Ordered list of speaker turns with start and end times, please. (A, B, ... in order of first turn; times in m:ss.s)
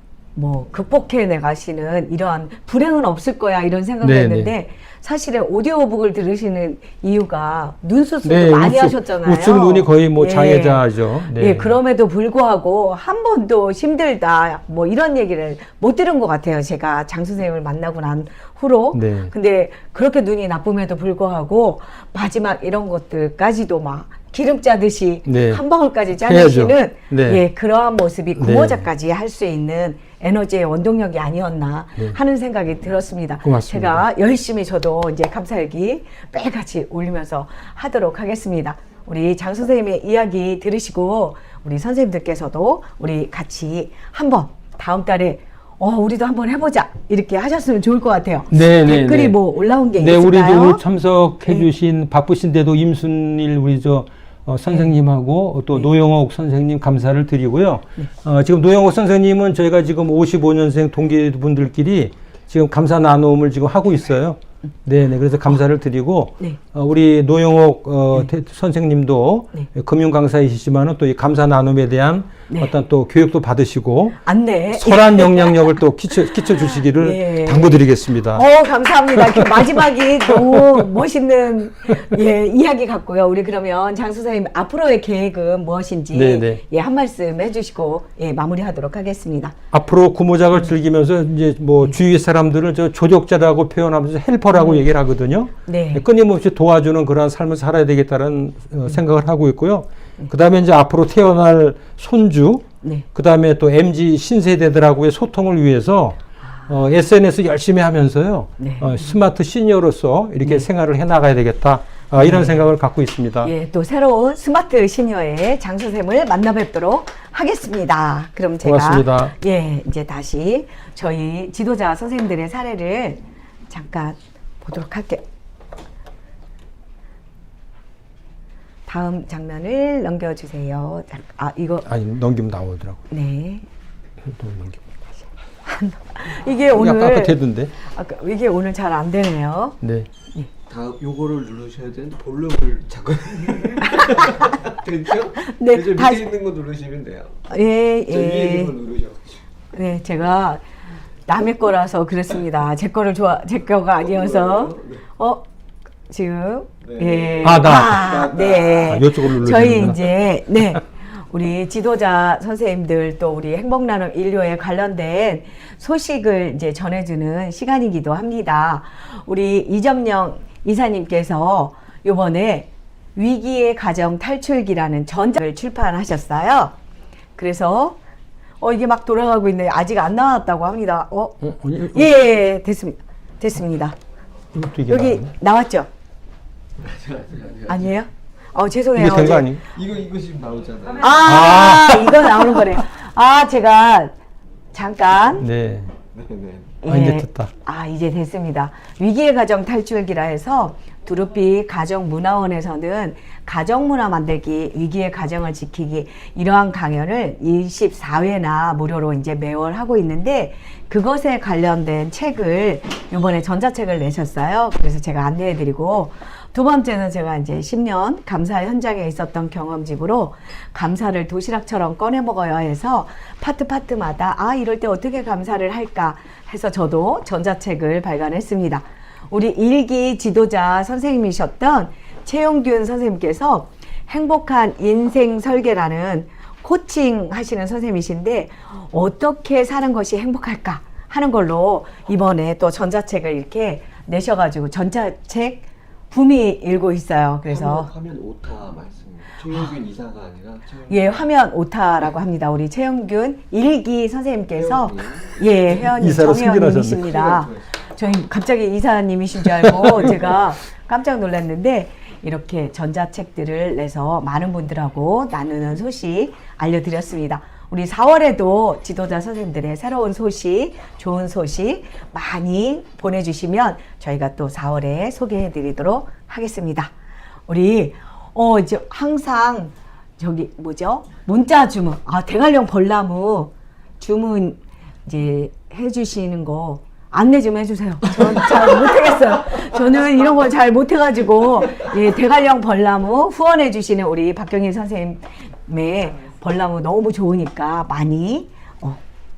0:00.4-0:50.8 A
0:04.0-0:04.5 B
0:08.2-0:11.8 B
0:18.9-0:19.3 B
0:25.3-0:25.6 B
0:26.2-0:27.4 B
0:28.4-0:28.9 B
0:33.4-0:34.0 B
0:48.5-0:49.4 B
0:50.0-1:18.5 B
1:14.2-1:29.6 A
1:19.1-1:20.8 B
1:26.1-1:26.6 B
1:29.7-1:53.5 B
1:34.5-1:34.8 A
1:35.7-1:36.1 A
1:48.6-1:49.0 A
1:52.2-1:52.6 A
1:53.4-2:05.2 A
1:58.6-1:59.3 B
2:08.9-2:11.9 A
2:11.8-2:13.1 B
2:13.1-2:13.6 A
2:14.2-2:14.8 B
2:15.6-2:19.8 A
2:16.7-2:17.7 B
2:19.8-2:20.1 B
2:20.7-2:27.4 C
2:23.9-2:24.5 A
2:25.4-2:26.3 A
2:27.5-2:28.7 A
2:28.1-2:29.4 C
2:29.7-2:30.6 A
2:31.3-2:35.4 A
2:34.0-2:35.0 C
2:36.1-2:56.8 A
2:36.9-2:39.0 C
2:37.4-2:38.2 B
2:38.9-2:40.0 B
2:57.4-2:58.0 A
2:58.6-3:04.0 A
3:01.4-3:02.1 B
3:04.5-3:05.3 B
3:04.9-3:05.9 A
3:06.8-3:07.9 C
3:07.7-3:09.5 A
3:09.0-3:09.6 B
3:09.7-3:11.4 C
3:11.0-3:14.2 A
3:11.2-3:12.6 B
3:14.7-3:15.5 A
3:15.4-3:15.9 B
3:16.1-3:16.8 C
3:16.8-4:07.9 A
3:16.9-3:17.5 B
4:07.5-4:11.3 C
4:10.9-4:36.9 A
4:14.6-4:15.7 C
4:15.9-4:17.0 B
4:16.9-4:17.8 C
4:19.6-4:20.1 B
4:37.5-4:59.0 A